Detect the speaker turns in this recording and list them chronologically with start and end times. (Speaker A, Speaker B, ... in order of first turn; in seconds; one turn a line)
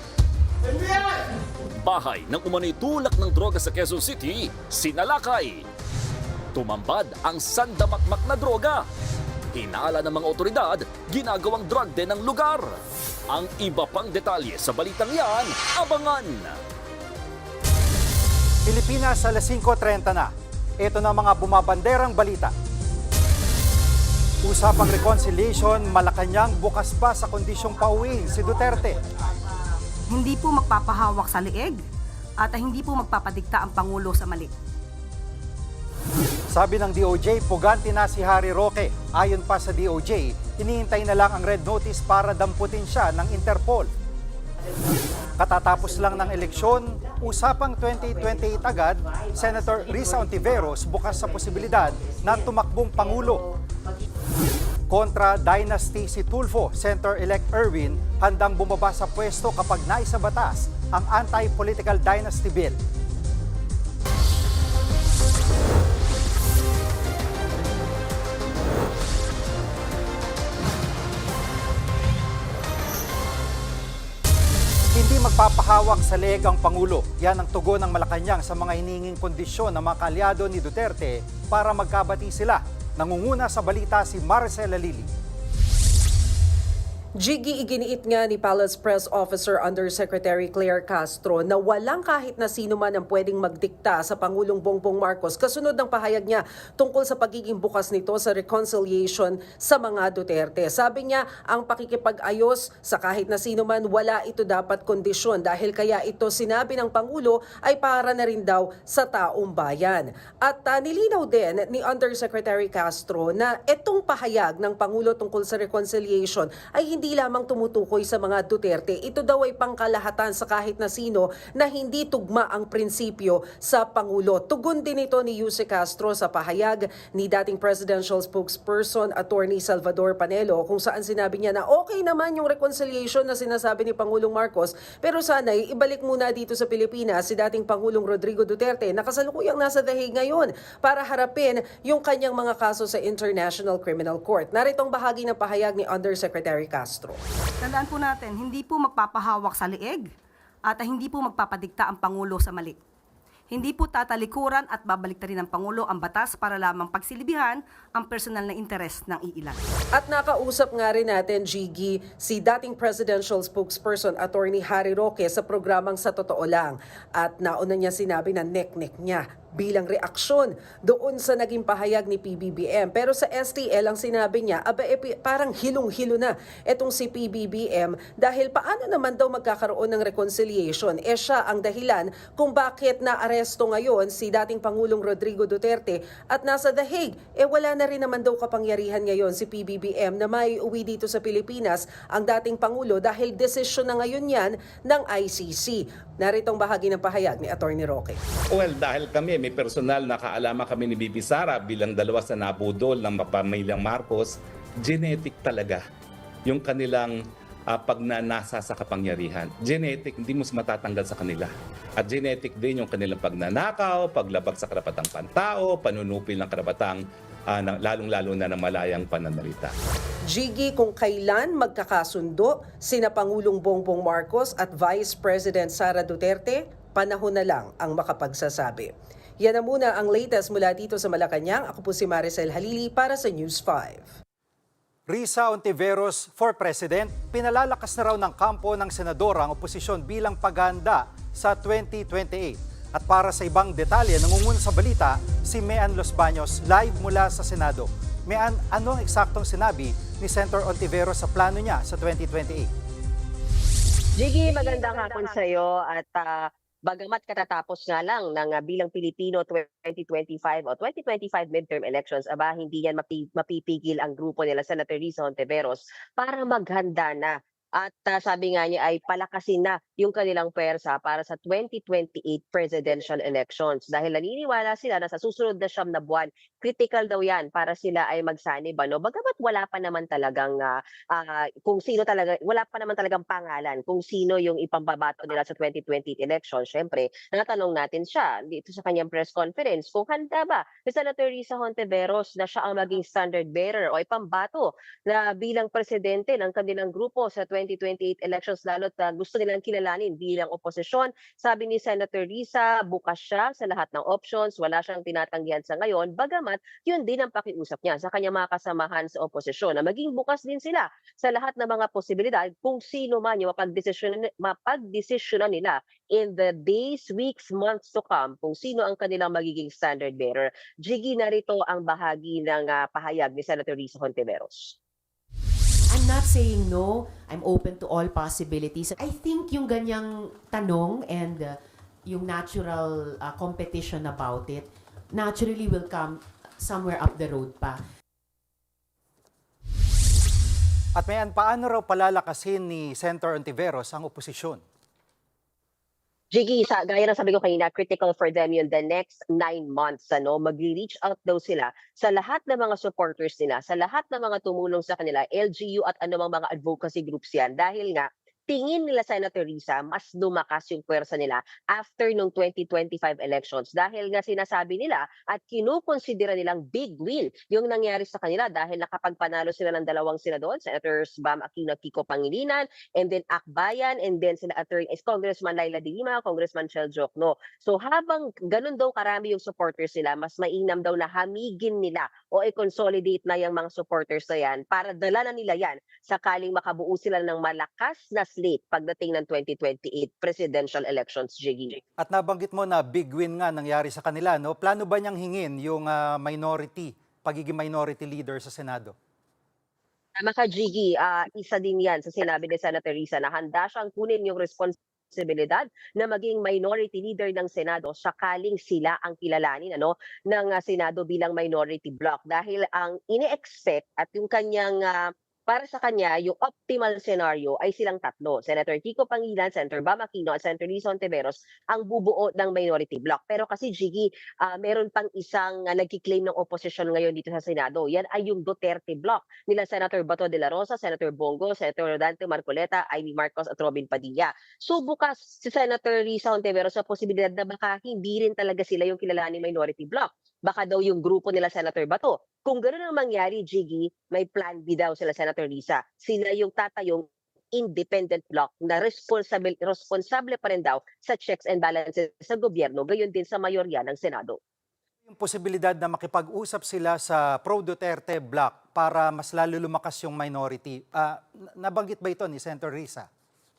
Speaker A: 1.8-5.7
Speaker A: 6.5-8.8
Speaker A: 9.5-12.8
Speaker A: 13.3-16.6
Speaker B: 18.7-22.5
Speaker B: 24.4-29.0
Speaker C: 30.1-31.8
Speaker C: 32.4-34.5
Speaker B: 36.5-43.9
Speaker D: 44.6-54.1
Speaker B: 45.4-53.4
Speaker B: 54.9-62.8
Speaker B: 74.9-85.1
Speaker E: 87.2-147.2
Speaker C: 147.6-150.1
Speaker C: 150.7-152.8
Speaker C: 153.5-159.6
Speaker E: 159.9-198.2
Speaker F: 198.5-205.8
Speaker F: 206.5-207.2
Speaker F: 207.7-219.7
Speaker E: 220.3-234.1
Speaker B: 235.1-252.7
Speaker G: 254.2-324.8
Speaker D: 325.9-337.8
Speaker B: 341.0-344.6
Speaker G: 346.3-391.8
Speaker B: 392.0-398.9
Speaker G: 400.2-454.4
Speaker B: 455.1-463.1